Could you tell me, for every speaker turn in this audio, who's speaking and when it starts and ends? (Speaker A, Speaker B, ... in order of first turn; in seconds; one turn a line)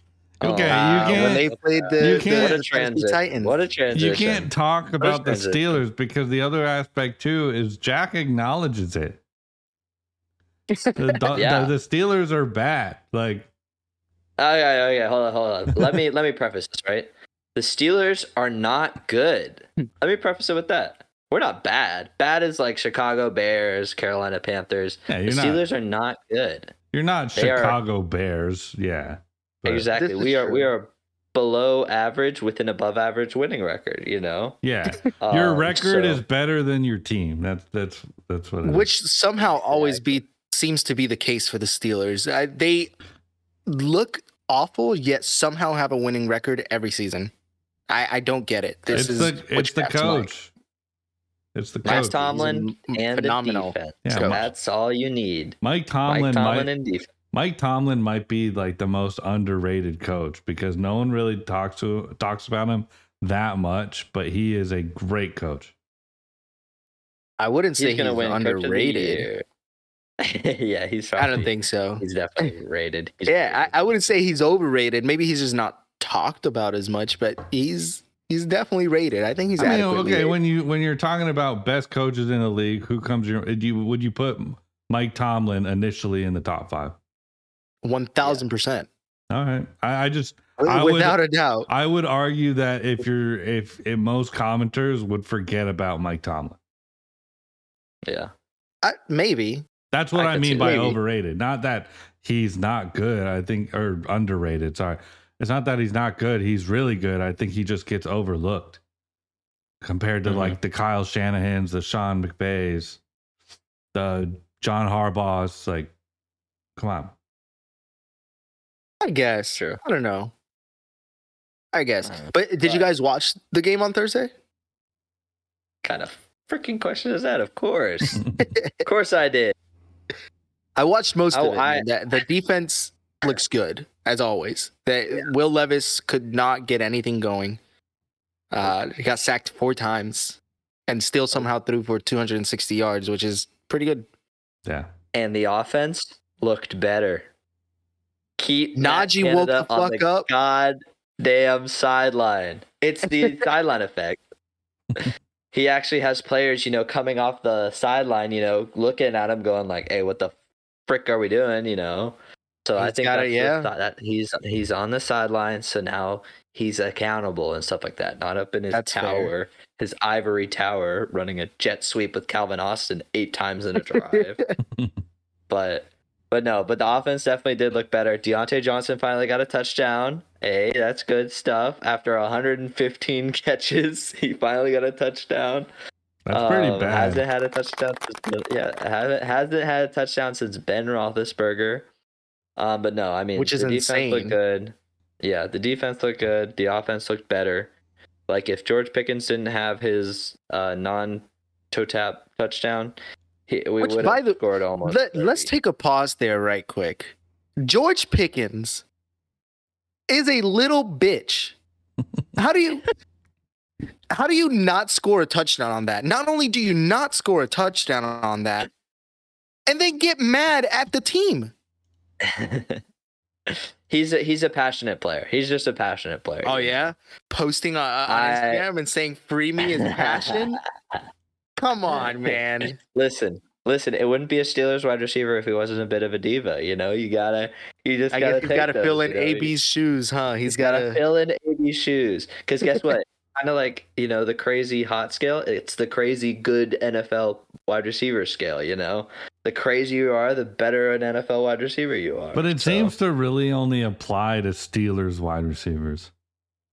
Speaker A: 0.4-2.6
Speaker B: 0.4-5.8
Speaker C: 0.7-3.6
Speaker A: 3.9-9.2
Speaker C: 10.7-11.2
Speaker A: 11.0-13.5
Speaker B: 11.3-11.7
Speaker B: 14.4-26.7
Speaker A: 25.1-25.7
Speaker A: 26.9-29.9
Speaker B: 27.4-27.8
Speaker B: 29.6-34.6
Speaker C: 29.9-30.7
Speaker A: 34.6-38.9
Speaker B: 35.1-36.2
Speaker C: 38.6-42.9
Speaker B: 39.4-40.2
Speaker C: 43.7-47.3
Speaker C: 47.9-50.3
Speaker A: 48.9-50.5
Speaker A: 51.5-52.2
Speaker C: 51.8-54.4
Speaker B: 51.8-57.1
Speaker A: 54.0-54.5
Speaker A: 55.6-56.7
Speaker A: 57.3-65.7
Speaker C: 67.4-69.3
Speaker B: 67.8-69.4
Speaker B: 70.2-73.8
Speaker C: 71.2-72.5
Speaker C: 73.3-80.4
Speaker A: 79.6-87.0
Speaker C: 87.8-88.9
Speaker A: 89.3-96.6
Speaker C: 90.6-91.7
Speaker B: 98.0-98.3
Speaker C: 98.8-99.7
Speaker A: 99.9-108.8
Speaker C: 100.2-101.0
Speaker B: 100.3-100.8
Speaker A: 109.8-113.0
Speaker B: 110.3-110.6
Speaker A: 113.9-115.9
Speaker A: 116.8-117.2
Speaker C: 119.0-120.3
Speaker C: 121.7-124.3
Speaker B: 122.0-122.9
Speaker B: 125.8-128.3
Speaker A: 128.2-128.5
Speaker C: 128.4-128.7
Speaker B: 128.8-129.5
Speaker C: 130.8-137.6
Speaker B: 131.3-131.9
Speaker C: 138.5-144.1
Speaker B: 145.1-147.3
Speaker B: 148.4-154.2
Speaker C: 148.8-150.3
Speaker C: 153.1-153.4
Speaker B: 155.0-160.3
Speaker B: 160.9-174.5
Speaker C: 162.8-163.7
Speaker C: 168.7-169.3
Speaker C: 173.8-174.4
Speaker B: 175.5-185.7
Speaker A: 186.3-187.2
Speaker B: 186.3-191.9
Speaker B: 192.6-197.7
Speaker C: 193.4-194.4
Speaker B: 198.3-202.9
Speaker B: 203.5-205.5
Speaker C: 203.8-208.8
Speaker C: 210.1-211.6
Speaker C: 212.4-212.8
Speaker C: 214.1-218.7
Speaker C: 219.7-221.5
Speaker B: 222.2-222.8
Speaker B: 223.5-226.8
Speaker C: 226.4-230.6
Speaker B: 228.1-228.6
Speaker B: 229.8-231.0
Speaker C: 231.6-232.8
Speaker B: 231.9-239.5
Speaker C: 238.1-241.0
Speaker B: 240.5-252.9
Speaker A: 252.3-256.1